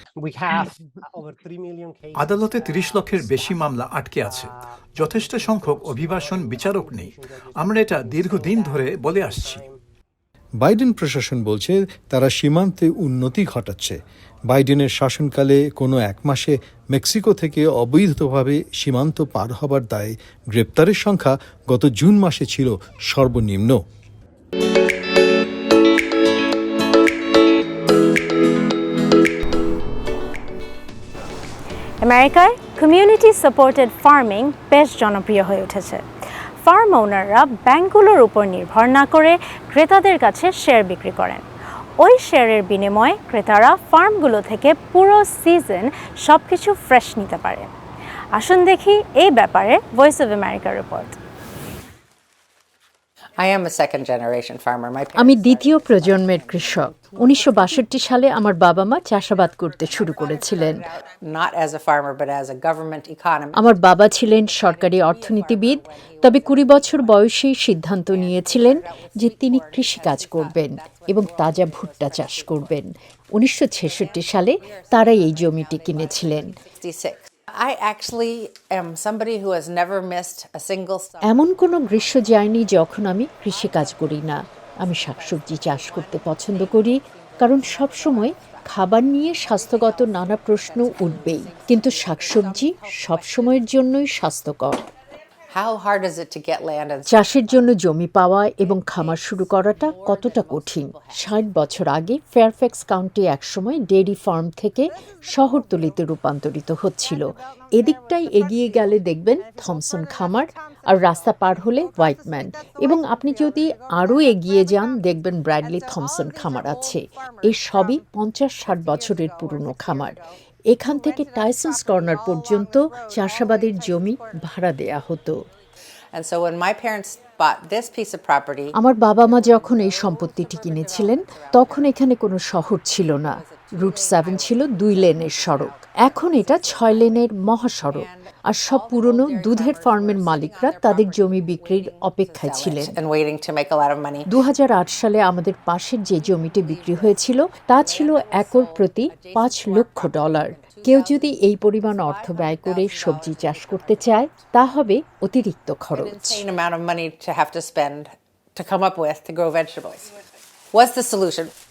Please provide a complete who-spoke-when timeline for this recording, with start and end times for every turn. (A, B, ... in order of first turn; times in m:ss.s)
0:00.2-0:03.6 A
0:02.1-0:09.6 B
0:04.2-0:09.7 A
0:10.6-0:14.0 C
0:14.5-0:23.8 C
0:32.0-0:36.0 D
0:36.6-0:41.4 D
0:42.0-0:47.7 D
0:48.3-0:51.2 D
0:53.4-0:56.6 E
0:55.2-1:00.9 F
0:59.5-1:07.3 E
1:03.5-1:16.6 F
1:08.0-1:12.8 E
1:13.7-1:22.8 E
1:21.2-1:34.8 F
1:23.5-1:24.3 E
1:24.9-1:33.9 E
1:35.5-1:37.7 E
1:37.1-2:00.2 F
1:38.6-1:41.6 E
1:49.7-1:50.2 E
1:55.6-1:56.9 E
1:58.8-2:00.1 E
2:00.7-2:05.4 F
2:01.0-2:04.0 E
2:06.1-2:12.0 E
2:08.8-2:23.0 F
2:13.2-2:17.3 E
2:17.9-2:24.3 E
2:24.3-2:36.5 F
2:26.1-2:34.5 E
2:35.9-2:40.1 E
2:40.7-2:41.5 E